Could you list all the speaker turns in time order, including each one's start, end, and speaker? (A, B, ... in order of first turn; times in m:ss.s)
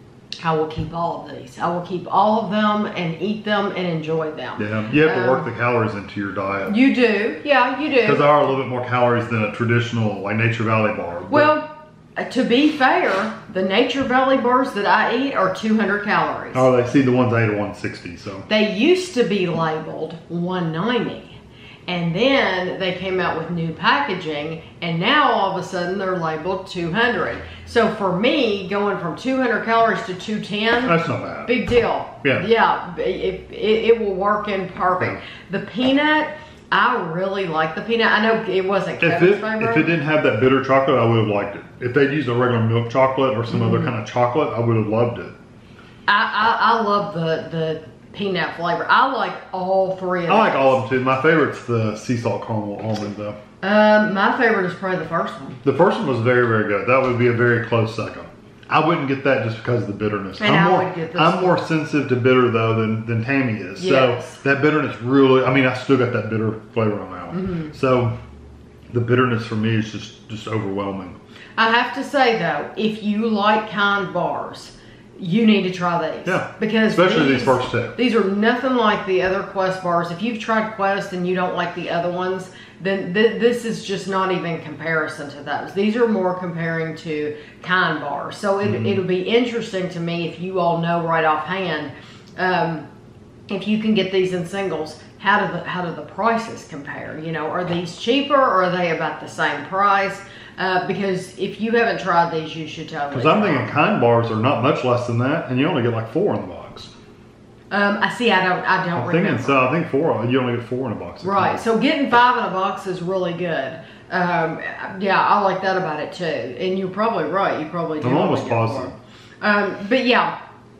0:00.4-0:05.5 A
0:04.6-0:06.8 B
0:06.7-0:08.4 A
0:08.0-0:11.5 B
0:11.3-0:16.7 A
0:16.5-0:18.5 B
0:18.5-0:40.0 A
0:30.8-0:31.6 B
0:39.0-0:45.3 B
0:43.5-0:43.9 A
0:46.1-0:50.8 A
0:50.3-0:53.4 B
0:53.6-0:55.6 A
0:55.6-1:08.2 B
1:00.4-1:01.6 A
1:03.8-1:04.4 A
1:07.3-1:07.7 A
1:08.9-1:11.2 B
1:11.6-1:32.9 A
1:16.2-1:18.0 B
1:28.6-1:29.0 B
1:33.5-1:43.8 A
1:43.1-1:46.9 B
1:47.7-1:49.7 A
1:48.9-1:51.6 B
1:51.2-2:00.3 A
1:58.0-1:58.9 B